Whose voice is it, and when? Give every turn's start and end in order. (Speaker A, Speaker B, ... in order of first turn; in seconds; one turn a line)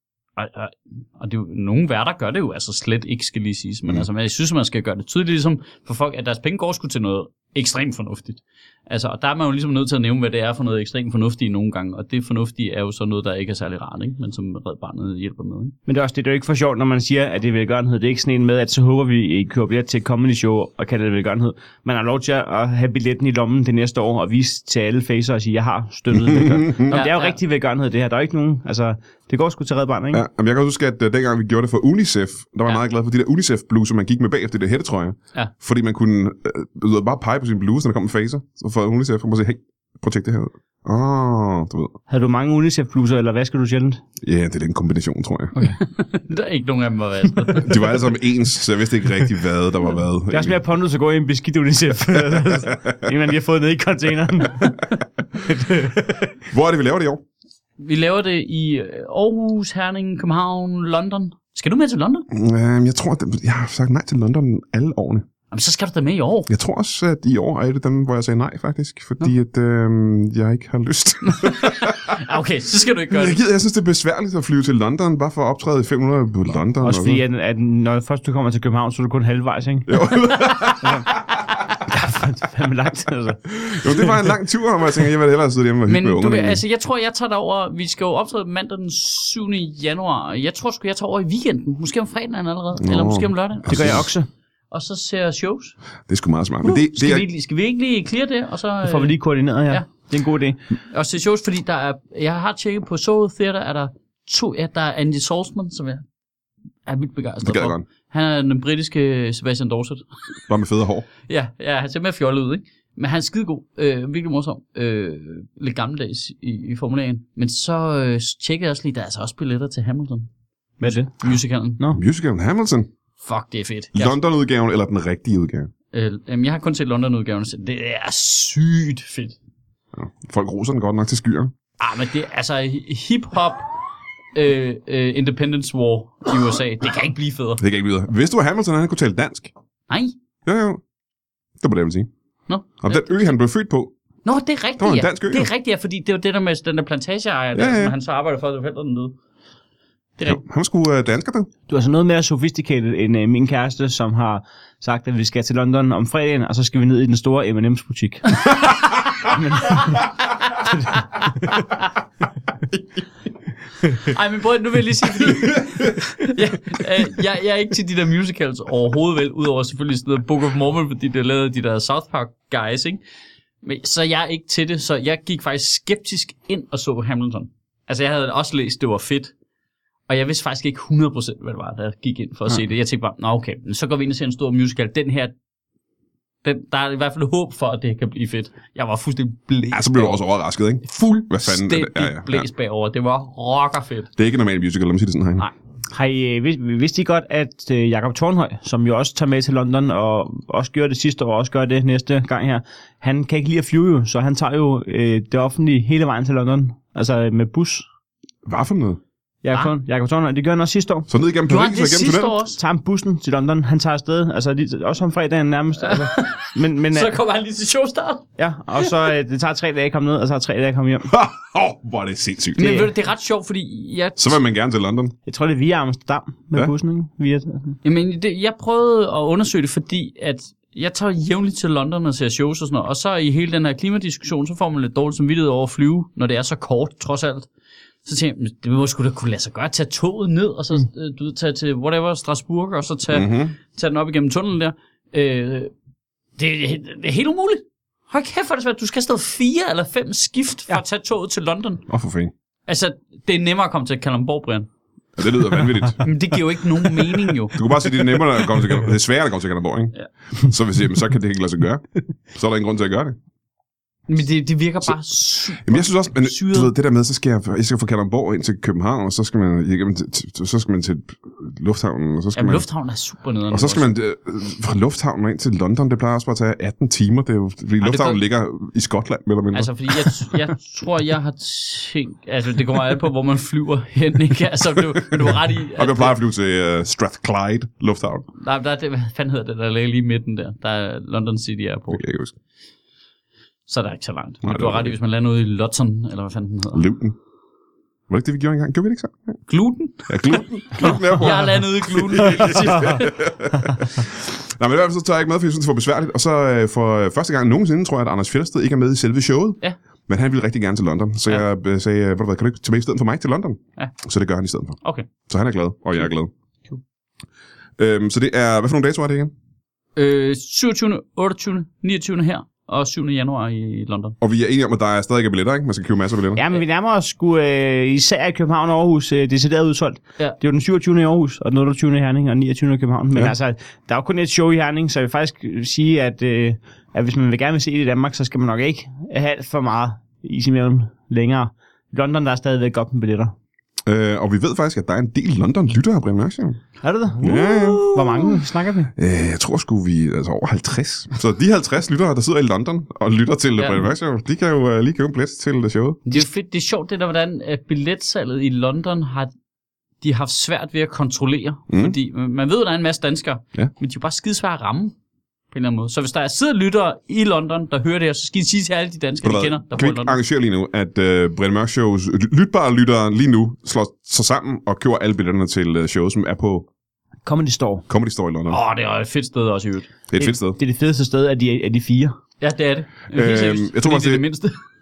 Speaker A: 0.4-15.7
Speaker B: 15.9-30.2
Speaker C: 26.1-26.9
Speaker A: 26.9-27.4
Speaker C: 30.1-42.0
Speaker B: 42.1-44.0
Speaker C: 44.2-45.5
Speaker A: 45.5-47.9
Speaker C: 47.5-50.6
Speaker B: 50.3-56.4
Speaker C: 56.5-57.2
Speaker A: 57.8-62.3
Speaker C: 62.3-65.2
Speaker A: 65.5-66.5
Speaker C: 66.5-72.2
Speaker A: 71.3-73.4
Speaker C: 73.1-77.2
Speaker B: 76.8-80.1
Speaker C: 79.9-81.2
Speaker B: 81.9-83.5
Speaker C: 83.5-86.6
Speaker A: 85.9-94.1
Speaker C: 92.8-94.1
Speaker B: 93.7-94.3
Speaker A: 94.7-95.7
Speaker C: 96.1-97.3
Speaker A: 96.6-99.2
Speaker B: 98.8-100.6
Speaker A: 100.9-106.0
Speaker A: 106.9-110.0
Speaker C: 107.4-107.8
Speaker C: 110.5-111.0
Speaker A: 111.3-120.3
Speaker B: 120.8-121.1
Speaker A: 120.8-121.8
Speaker C: 121.9-122.9
Speaker A: 123.2-124.2
Speaker C: 123.9-125.7
Speaker A: 125.9-129.3
Speaker C: 129.9-131.5
Speaker A: 131.8-133.7
Speaker A: 134.3-137.6
Speaker C: 137.6-139.5
Speaker A: 139.9-140.1
Speaker C: 140.4-140.8
Speaker C: 141.6-142.1
Speaker A: 142.5-143.3
Speaker C: 142.8-143.9
Speaker A: 144.2-149.2
Speaker C: 144.8-145.5
Speaker C: 147.5-147.9
Speaker C: 150.2-151.5
Speaker B: 151.7-158.4
Speaker B: 159.2-160.0
Speaker A: 164.0-173.0
Speaker C: 165.5-165.9
Speaker A: 173.6-179.3
Speaker A: 180.1-185.3
Speaker A: 186.4-190.2
Speaker C: 189.7-192.5
Speaker A: 190.8-194.1
Speaker C: 194.2-195.5
Speaker B: 195.9-207.8
Speaker C: 208.4-209.0
Speaker B: 209.4-211.1
Speaker C: 211.1-212.3
Speaker A: 211.5-212.6
Speaker B: 212.5-217.2
Speaker A: 215.8-218.2
Speaker B: 218.4-221.1
Speaker C: 221.1-222.9
Speaker A: 222.6-224.4
Speaker C: 224.2-225.1
Speaker B: 225.2-227.8
Speaker A: 227.8-237.5
Speaker A: 238.0-245.7
Speaker C: 243.1-243.5
Speaker A: 246.4-251.8
Speaker C: 251.9-252.3
Speaker A: 252.7-254.7
Speaker C: 255.2-256.0
Speaker A: 256.0-257.6
Speaker C: 257.5-263.1
Speaker A: 264.1-266.7
Speaker C: 265.6-272.6
Speaker A: 272.3-273.9
Speaker C: 273.5-280.1
Speaker A: 277.8-278.2
Speaker A: 279.5-286.1
Speaker C: 285.7-288.2
Speaker A: 288.4-292.0
Speaker C: 291.9-292.3
Speaker A: 293.7-296.8
Speaker C: 294.4-294.9
Speaker C: 296.7-297.1
Speaker C: 298.1-299.4
Speaker A: 299.5-303.2
Speaker C: 300.1-316.3
Speaker C: 317.8-319.3
Speaker A: 319.9-324.1
Speaker C: 324.2-326.4
Speaker B: 326.3-343.3
Speaker C: 343.9-346.6
Speaker B: 346.8-348.9
Speaker C: 347.2-348.2
Speaker C: 348.9-356.1
Speaker A: 353.6-353.9
Speaker A: 356.1-359.3
Speaker A: 360.0-364.9
Speaker C: 361.7-361.9
Speaker A: 365.5-370.1
Speaker C: 369.2-376.7
Speaker B: 377.2-377.8
Speaker C: 377.9-378.6
Speaker A: 378.5-379.9
Speaker C: 380.1-380.6
Speaker B: 380.2-382.2
Speaker A: 382.4-384.6
Speaker C: 383.1-384.2